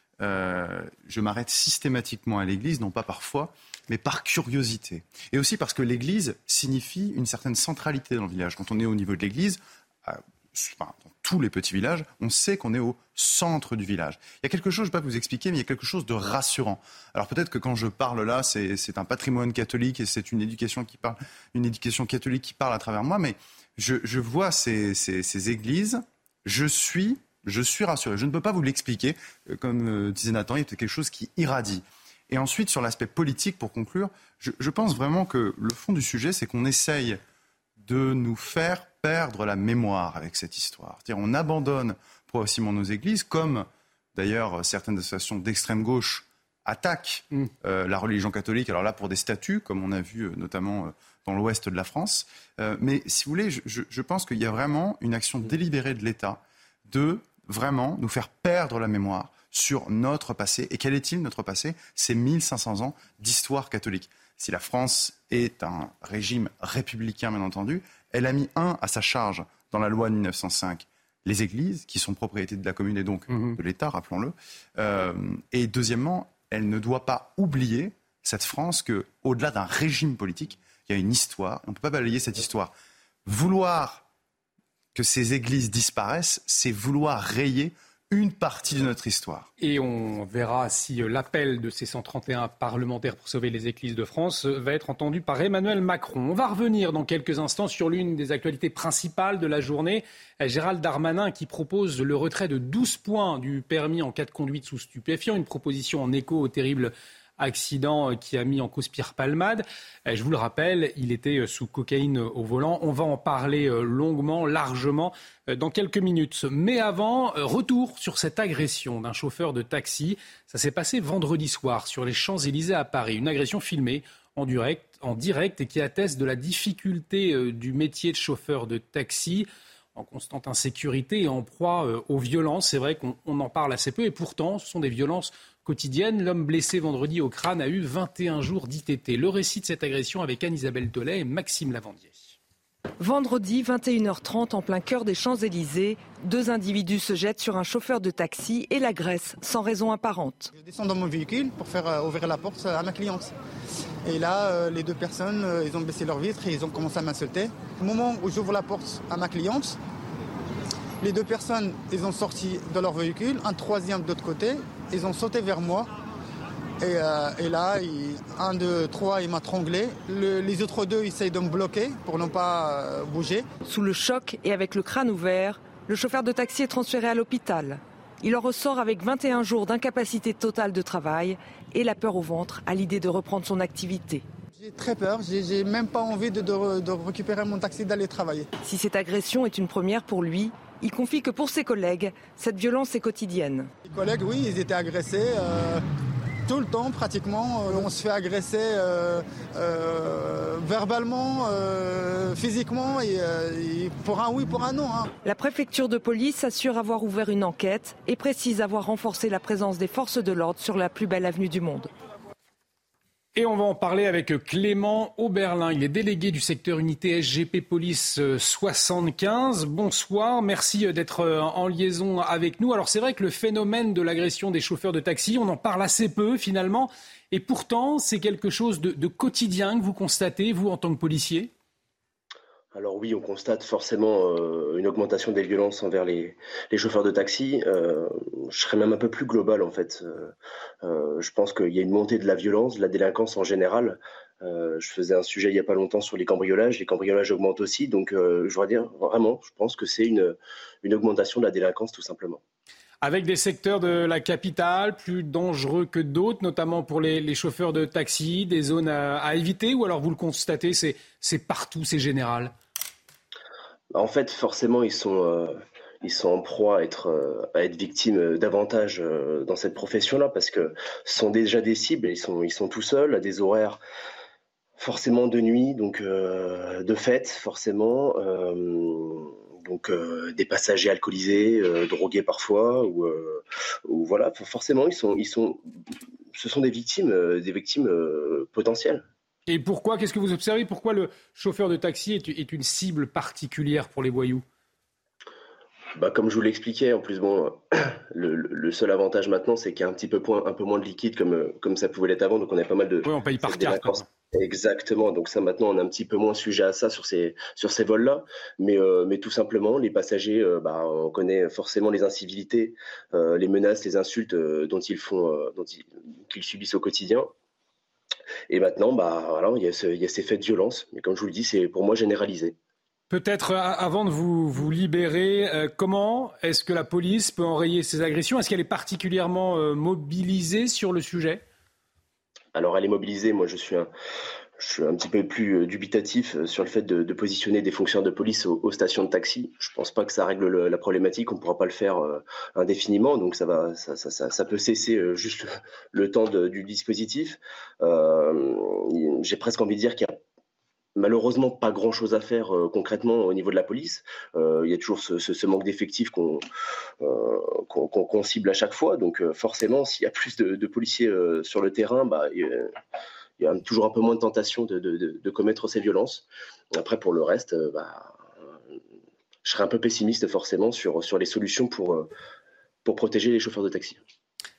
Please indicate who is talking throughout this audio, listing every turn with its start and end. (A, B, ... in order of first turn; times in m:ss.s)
0:00.2-0:37.2 A
0:37.8-1:22.7 A
1:13.3-1:13.6 B
1:23.3-1:24.0 A
1:25.0-1:29.5 A
1:29.6-2:22.4 B
2:23.0-2:30.5 C
2:30.6-2:33.3 D
2:34.0-2:39.8 D
2:41.0-2:45.9 D
2:46.8-2:53.5 D
2:53.6-3:04.2 C
3:04.6-3:08.5 D
3:08.6-3:13.7 C
3:13.8-3:15.8 D
3:16.5-3:25.1 D
3:25.2-3:31.9 C
3:33.4-3:51.5 B
3:52.7-4:12.4 E
4:13.0-4:22.5 B
4:23.9-4:33.8 E
4:34.8-4:45.6 E
4:46.4-4:49.0 E
4:49.5-4:54.4 B
4:56.0-5:17.3 E
5:03.0-5:04.0 B
5:18.5-5:22.6 E
5:23.1-5:31.4 B
5:32.6-5:33.9 E
5:34.6-5:50.2 E
5:51.0-5:56.4 E
5:57.0-6:02.7 E
6:03.4-6:08.3 E
6:09.4-6:12.1 E
6:12.8-6:14.0 E